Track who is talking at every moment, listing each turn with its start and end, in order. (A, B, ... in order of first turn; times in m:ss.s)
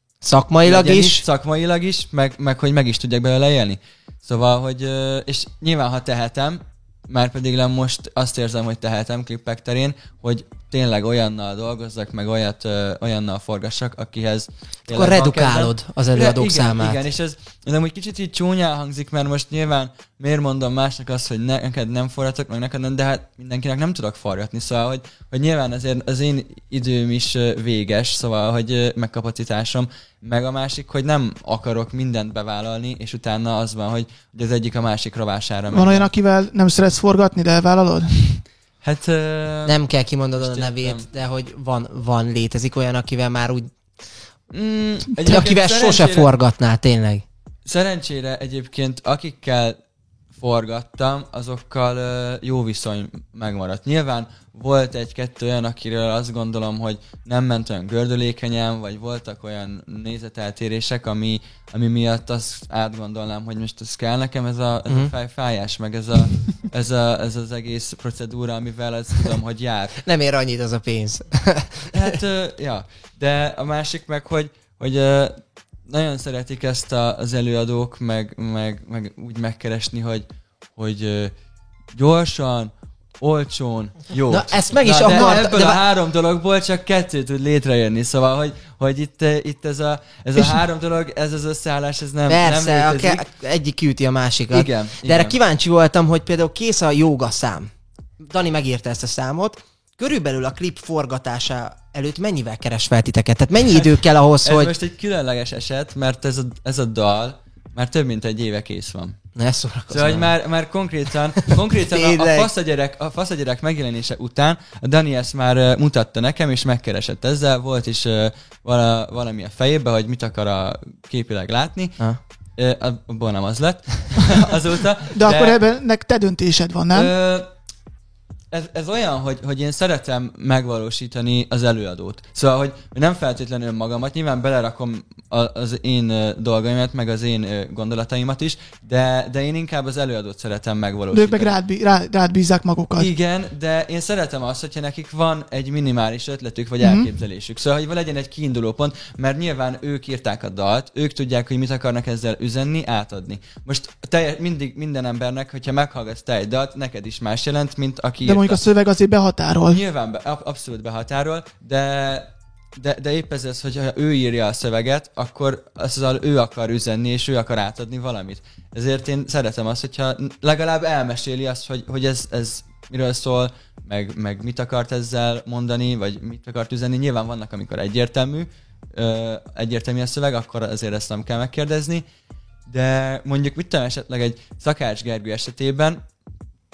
0:00.2-0:01.2 A
0:00.6-0:36.1 B
0:14.9-0:17.0 A
0:35.7-0:38.4 C
0:38.8-0:39.8 B
0:39.6-0:43.7 A
0:40.4-0:41.0 B
0:44.5-0:46.3 B
0:45.2-0:47.2 A
0:47.6-0:49.8 B
0:50.4-1:10.0 B
1:04.9-1:05.1 A
1:10.0-1:12.1 A
1:11.9-1:20.2 B
1:20.8-1:21.3 B
1:21.9-1:33.2 B
1:24.3-1:25.8 A
1:32.3-1:44.7 A
1:34.5-1:35.4 B
1:43.7-1:49.2 B
1:49.4-1:50.3 A
1:49.9-2:02.0 B
1:51.9-1:52.5 A
2:02.6-2:05.6 B
2:05.1-2:07.1 C
2:06.9-2:07.5 B
2:08.5-2:21.5 B
2:21.1-2:23.1 C
2:23.0-2:38.6 B
2:26.8-2:27.1 C
2:38.2-2:39.8 C
2:39.7-3:02.0 B
3:02.7-3:06.0 B